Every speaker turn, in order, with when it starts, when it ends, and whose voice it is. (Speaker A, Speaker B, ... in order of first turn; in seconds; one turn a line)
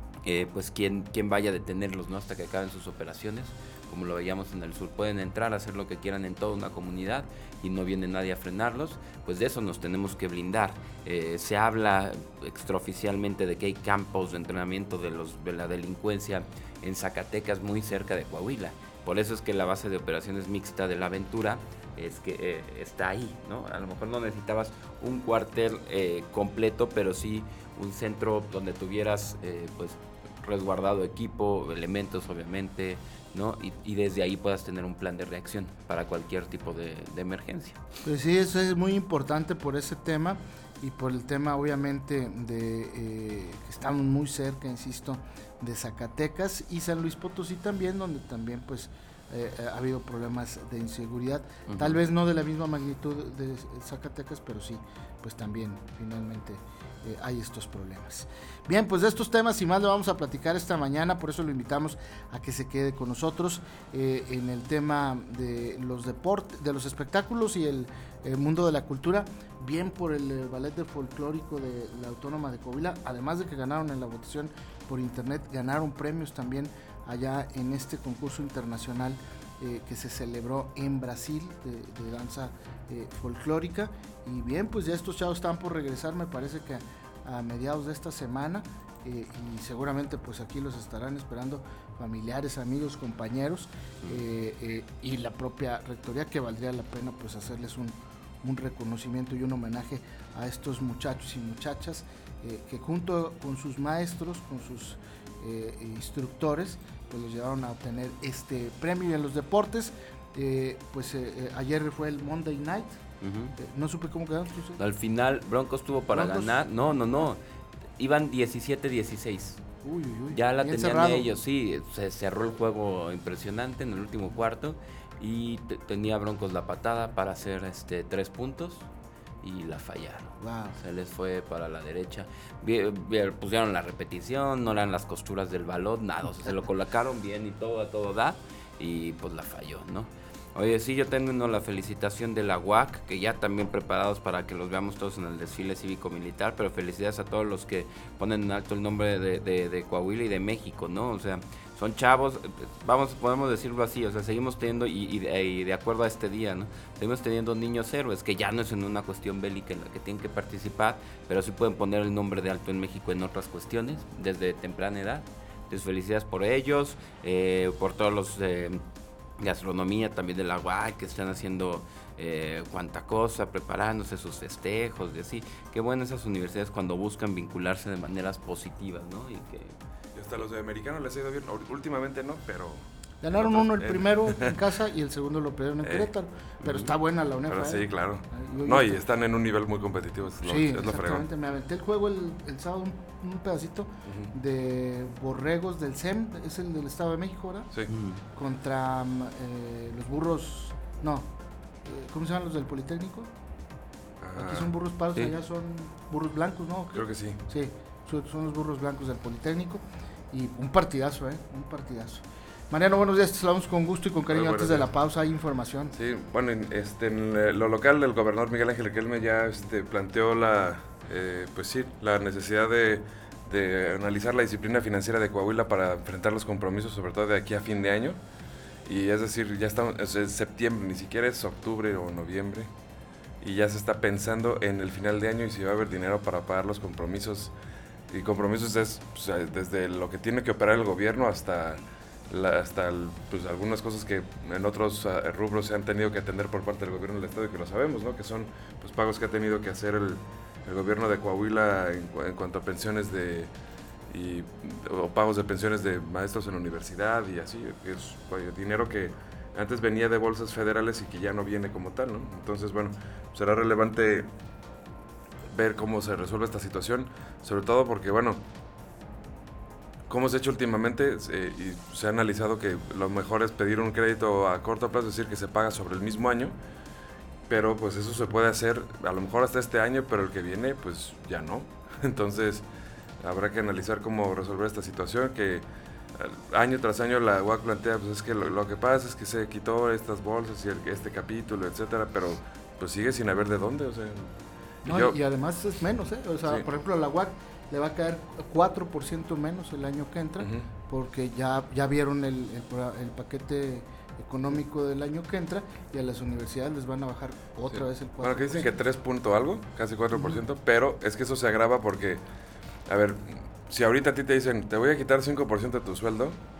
Speaker A: 0.2-37.8
Speaker B: 38.0-113.0
Speaker A: 51.7-52.0
Speaker A: 113.2-113.5
Speaker B: 113.5-114.8
Speaker A: 114.8-117.4
Speaker B: 116.1-116.6
Speaker A: 118.0-119.6
Speaker B: 119.8-121.3
Speaker A: 120.3-128.9
Speaker A: 129.4-168.8
Speaker B: 130.4-130.8
Speaker A: 169.4-179.8
Speaker C: 180.1-184.6
Speaker B: 183.2-189.0
Speaker C: 185.8-186.1
Speaker A: 186.6-186.9
Speaker C: 187.5-191.2
Speaker B: 190.4-197.7
Speaker C: 194.1-194.3
Speaker A: 197.9-198.2
Speaker B: 198.3-201.3
Speaker B: 201.8-203.3
Speaker C: 204.2-204.7
Speaker B: 204.3-215.9
Speaker C: 206.9-207.4
Speaker C: 214.3-214.9
Speaker C: 215.9-228.2
Speaker C: 228.8-232.7
Speaker C: 233.4-237.5
Speaker C: 238.1-253.5
Speaker C: 254.1-264.3
Speaker C: 265.5-268.4
Speaker C: 270.1-276.6
Speaker C: 277.5-282.6
Speaker C: 283.2-294.3
Speaker C: 294.8-295.2
Speaker B: 294.8-308.7
Speaker C: 300.4-300.6
Speaker C: 307.7-312.2
Speaker C: 312.9-316.4